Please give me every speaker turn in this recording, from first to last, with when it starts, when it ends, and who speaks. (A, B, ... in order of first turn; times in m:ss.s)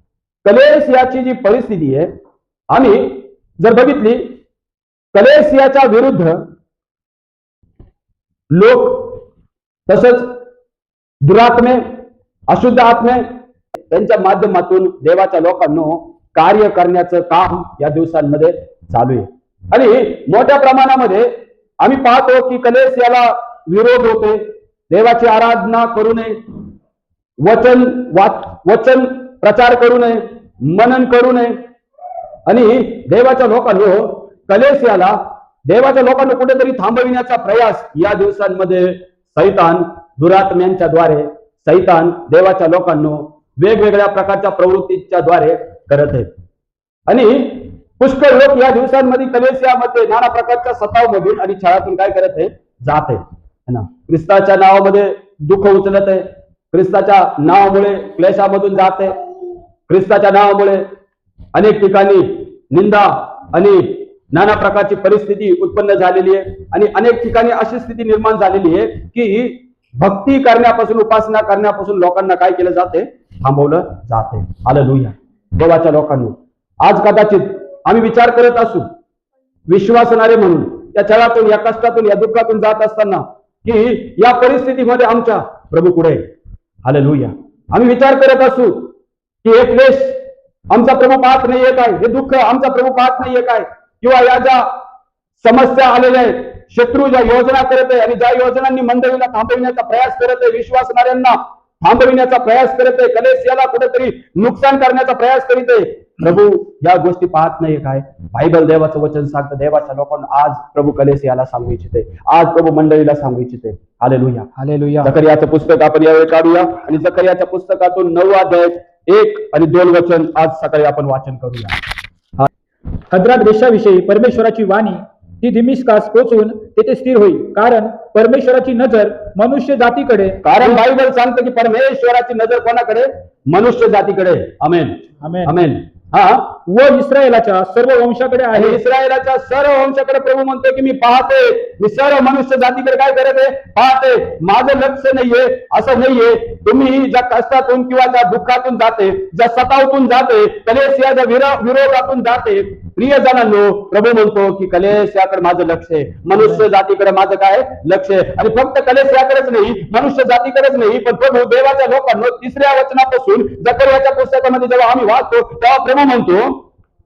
0:00.4-0:02.1 A
0:02.7-0:04.4 A
0:05.1-0:06.4 A
0:08.5-0:09.2 A
0:09.9-0:10.3 A
0:11.2-0:11.9 A
0:12.5-0:21.3 A
0:21.8-0:26.4 A
0:27.4-0:31.6 A
0:32.5-0:46.3 A
0:47.1-0:59.2 A
0:59.9-1:00.9 A
1:01.6-1:18.9 A
1:19.7-1:26.2 A
1:26.8-1:28.9 A
1:29.4-1:30.2 A
1:30.7-1:34.7 A
1:35.4-1:54.5 A
1:54.6-1:55.1 B
1:55.0-2:01.8 A
2:03.1-2:10.8 B
2:10.4-2:16.6 A
2:15.2-2:15.6 B
2:16.7-2:18.8 B
2:18.5-2:46.6 A